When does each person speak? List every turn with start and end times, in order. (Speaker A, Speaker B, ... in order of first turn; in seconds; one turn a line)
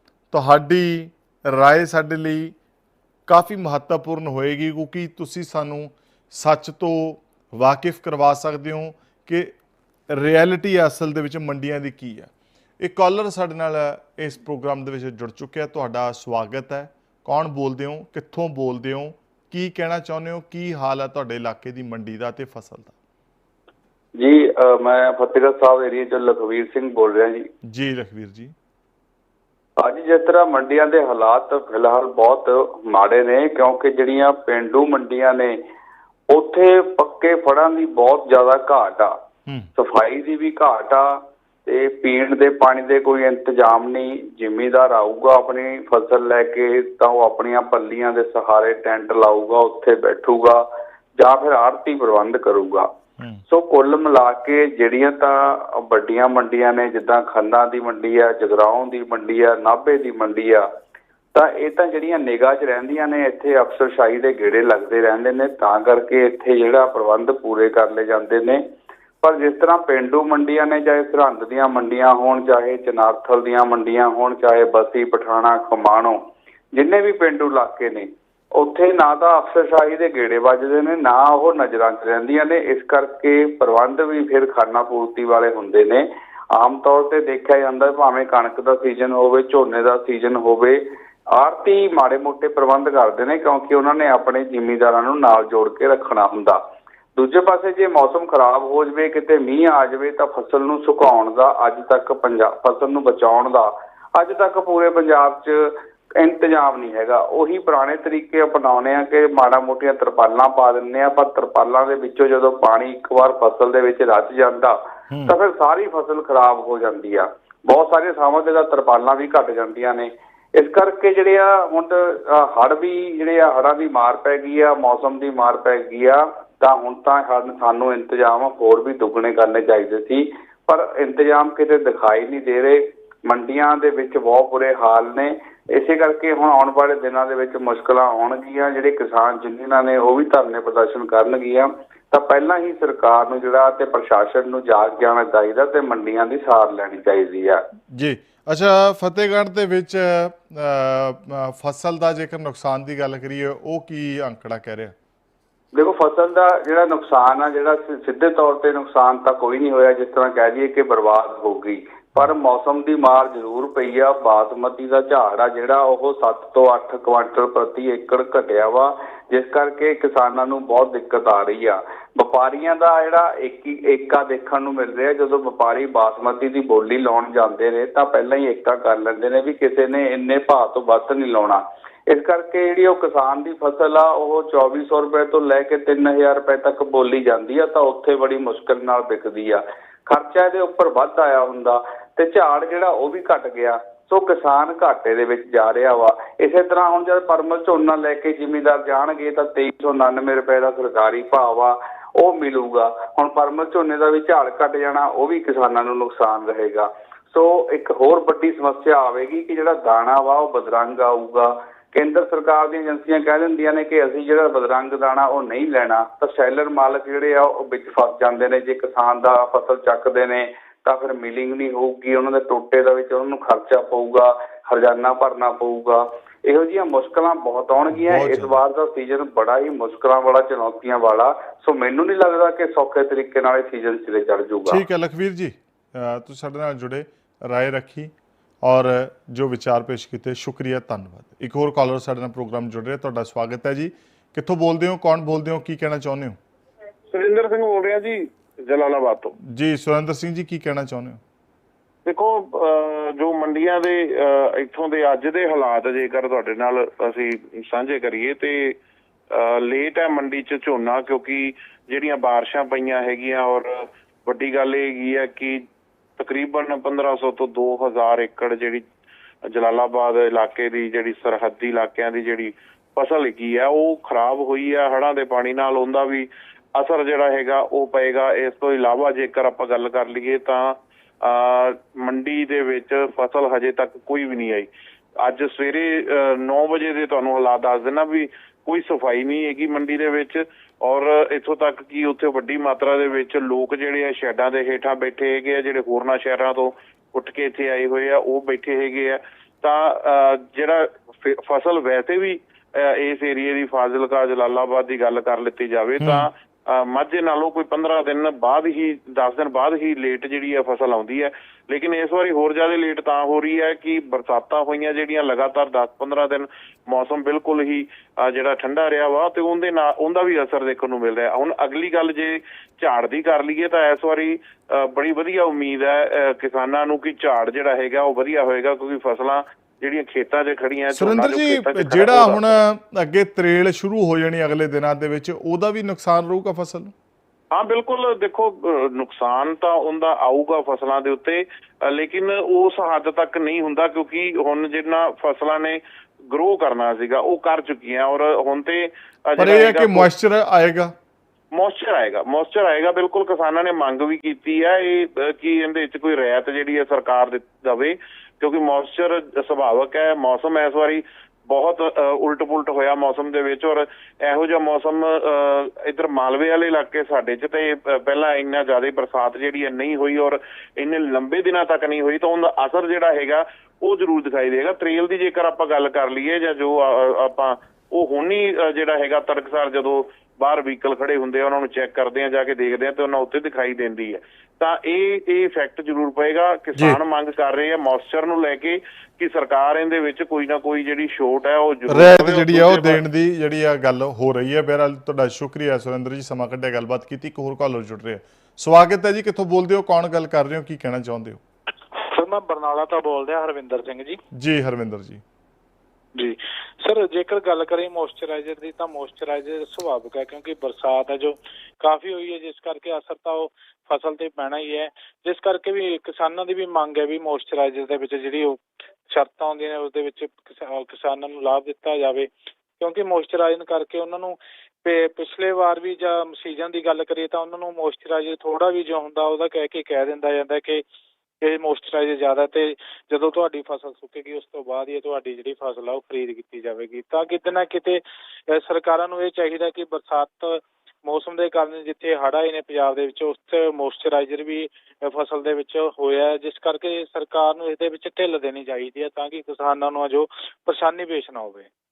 Speaker A: 0.3-2.5
Speaker A: 3.3-9.5
Speaker A: 10.1-22.9
Speaker B: 24.2-27.5
Speaker A: 27.6-28.5
Speaker B: 29.8-35.6
Speaker B: 36.3-39.2
Speaker B: 39.8-50.6
Speaker B: 51.2-52.9
Speaker B: 53.5-60.7
Speaker B: 61.3-68.6
Speaker B: 69.2-76.2
Speaker B: 76.7-96.6
Speaker B: 97.2-147.6
Speaker A: 115.1-115.3
Speaker A: 147.9-154.9
Speaker B: 155.7-234.8
Speaker A: 227.9-228.6
Speaker A: 234.7-246.4
Speaker C: 247.1-249.3
Speaker A: 249.4-251.2
Speaker C: 252.1-258.8
Speaker C: 259.3-265.6
Speaker C: 266.2-268.8
Speaker C: 269.5-284.7
Speaker C: 285.2-332.6
Speaker A: 306.0-306.3
Speaker A: 330.9-336.9
Speaker C: 337.5-350.1
Speaker A: 349.4-350.9
Speaker C: 351.5-393.0
Speaker A: 391.9-401.4
Speaker D: 402.0-404.2
Speaker A: 404.3-405.2
Speaker D: 406.1-430.8
Speaker D: 431.4-451.7